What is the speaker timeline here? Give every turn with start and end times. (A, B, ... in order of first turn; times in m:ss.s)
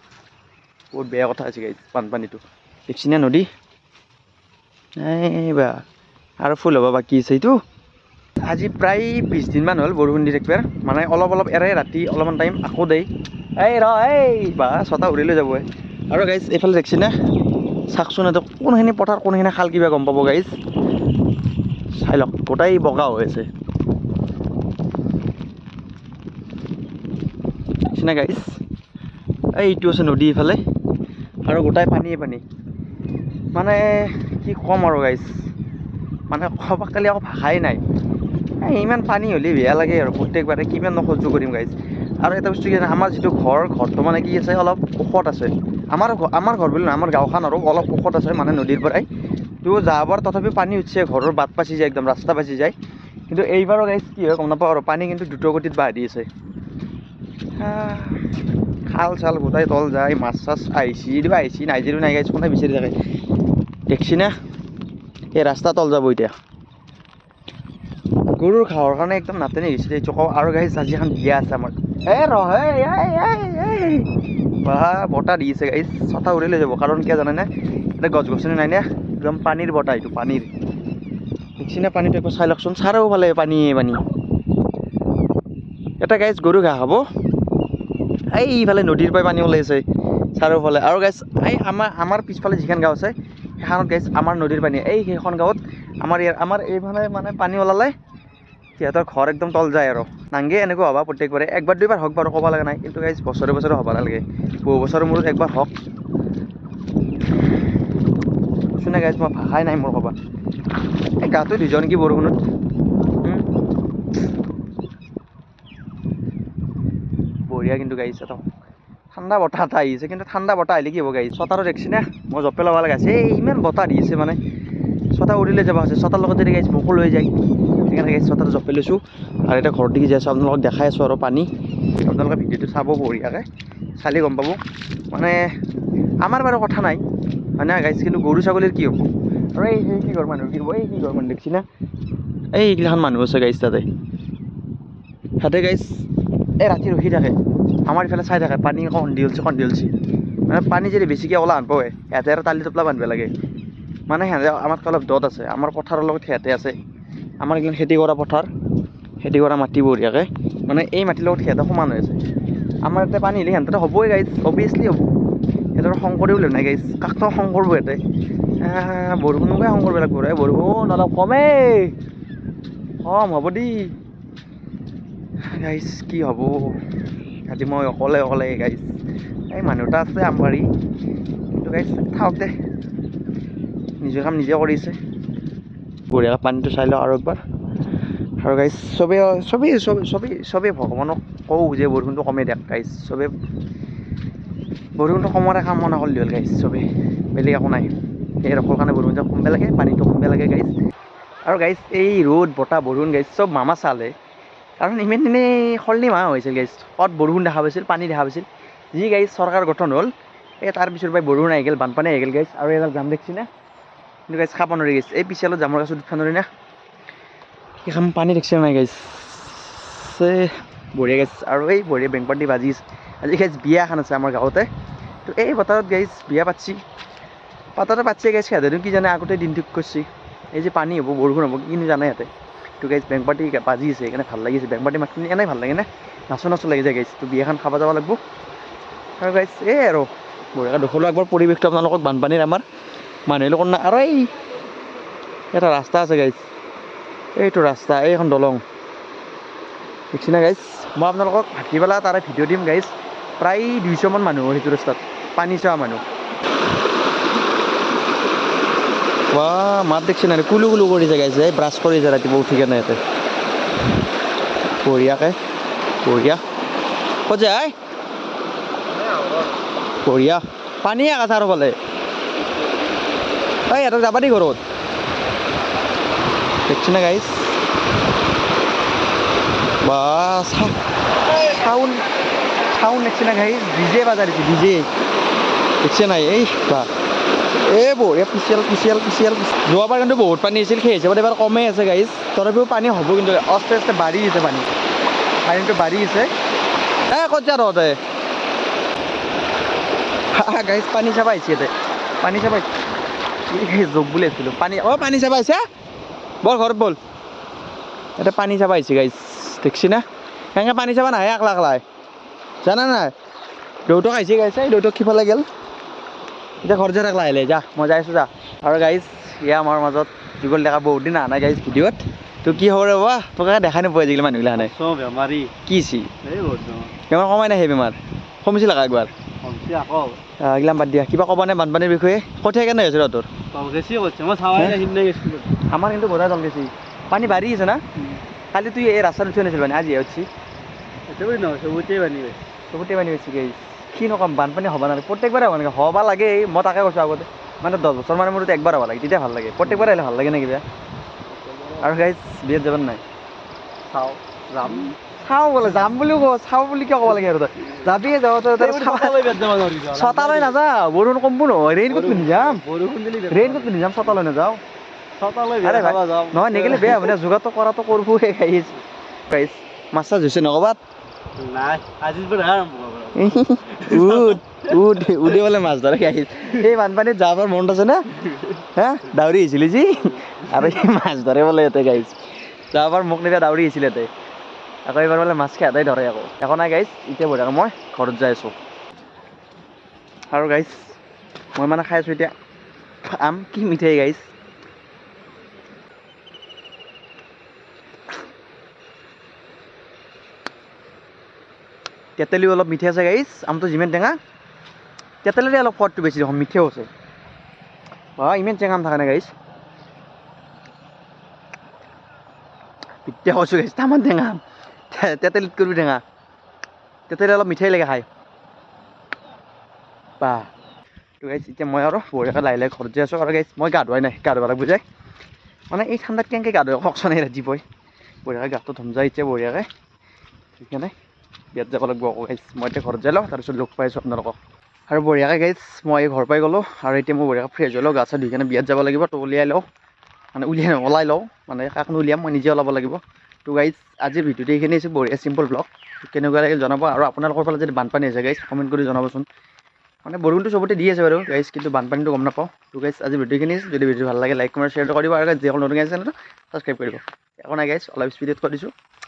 0:00.9-0:03.5 A
0:05.0-0:05.8 A
0:06.4-0:07.6 A
0:08.4-0:13.1 A
0:13.6-0:17.1 A
0:17.9-0:20.5 A
0:22.0-0:23.4 A
0:27.9-0:28.6 A
0:29.5-0:30.6 A
0:31.5-0:32.4 A
0:33.5-0:35.3 A
0:36.3-0:37.8 A
0:38.6-0:49.1 A
0:49.6-0:52.7 A
0:53.3-0:56.3 A
0:57.6-0:58.3 A
0:58.9-1:02.9 A
1:03.9-1:04.3 A
1:05.3-1:06.3 A
1:08.3-1:14.1 A
1:14.6-1:20.5 A
1:21.6-1:24.0 A
1:26.0-1:27.0 A
1:28.3-1:29.8 A
1:30.4-1:37.9 A
1:38.8-1:45.7 A
1:48.8-1:50.1 A
1:51.2-1:52.4 A
1:57.5-1:58.4 A
1:59.1-2:04.4 A
2:05.1-2:07.3 A
2:07.9-2:13.4 A
2:14.0-2:14.6 A
2:15.1-2:15.4 A
2:16.2-2:17.0 A
2:17.6-2:21.6 A
2:22.5-2:23.8 A
2:25.4-2:26.0 A
2:26.6-2:27.3 A
2:27.9-2:29.9 A
2:30.5-2:33.3 A
2:34.1-2:36.7 A
2:37.4-2:38.5 A
2:39.2-2:42.2 A
2:42.8-2:45.0 A
2:45.8-2:48.0 A
2:48.6-2:51.9 A
2:53.0-2:53.9 A
2:55.5-2:56.8 A
2:57.4-2:58.8 A
2:59.5-3:00.6 A
3:01.5-3:02.5 A
3:04.0-3:05.0 A
3:06.1-3:07.4 A
3:08.4-3:13.3 A
3:15.0-3:17.9 A
3:18.4-3:20.7 A
3:21.4-3:24.1 A
3:24.8-3:30.1 A
3:30.6-3:33.5 A
3:34.3-3:36.5 A
3:37.8-3:44.7 A
3:45.2-3:46.8 A
3:47.8-3:52.3 A
3:52.8-3:58.2 A
3:59.2-4:02.6 A
4:03.3-4:04.3 A
4:05.5-4:06.4 A
4:07.4-4:08.6 A
4:10.1-4:16.0 A
4:19.3-4:23.0 A
4:24.8-4:25.4 A
4:26.0-4:26.4 A
4:27.2-4:27.7 A
4:30.0-4:31.8 A
4:33.7-4:34.6 A
4:36.7-4:37.5 A
4:39.8-4:40.7 A
4:41.3-4:42.0 A
4:42.7-4:44.9 A
4:45.8-4:46.9 A
4:47.7-4:54.7 A
4:55.4-4:56.3 A
4:57.1-4:58.0 A
5:00.3-5:02.6 A
5:03.5-5:05.6 A
5:06.4-5:07.0 A
5:08.2-5:10.0 A
5:10.6-5:11.8 A
5:12.6-5:13.1 A
5:13.9-5:15.4 A
5:16.6-5:24.7 A
5:24.5-5:25.5 B
5:25.6-5:26.1 A
5:26.2-5:26.9 B
5:27.1-5:29.1 A
5:29.4-5:30.2 B
5:30.4-5:33.3 A
5:33.5-5:35.5 B
5:34.5-5:34.8 A
5:35.6-5:37.8 A
5:38.5-5:40.3 A
5:41.1-5:42.4 B
5:42.7-5:50.6 A
5:49.6-5:49.9 B
5:51.3-5:52.0 B
5:51.8-5:53.0 A
5:53.9-5:55.0 B
5:55.0-5:59.3 A
5:58.5-6:00.6 B
5:59.9-6:02.6 A
6:01.9-6:03.7 B
6:03.3-6:04.6 A
6:05.2-6:07.1 B
6:05.6-6:10.8 A
6:11.4-6:15.2 B
6:13.1-6:18.0 A
6:18.6-6:22.2 A
6:22.7-6:24.1 A
6:24.9-6:28.5 A
6:30.3-6:31.0 A
6:31.6-6:32.3 A
6:33.0-6:34.2 A
6:42.2-6:44.2 A
6:45.2-6:46.9 A
6:48.2-6:49.3 A
6:53.0-6:56.0 A
6:57.1-6:58.1 A
7:00.2-7:00.5 A
7:01.2-7:04.8 A
7:05.7-7:07.6 A
7:08.2-7:09.7 A
7:10.6-7:10.9 A
7:11.5-7:14.4 A
7:14.9-7:19.6 A
7:20.3-7:29.3 A
7:30.0-7:38.7 A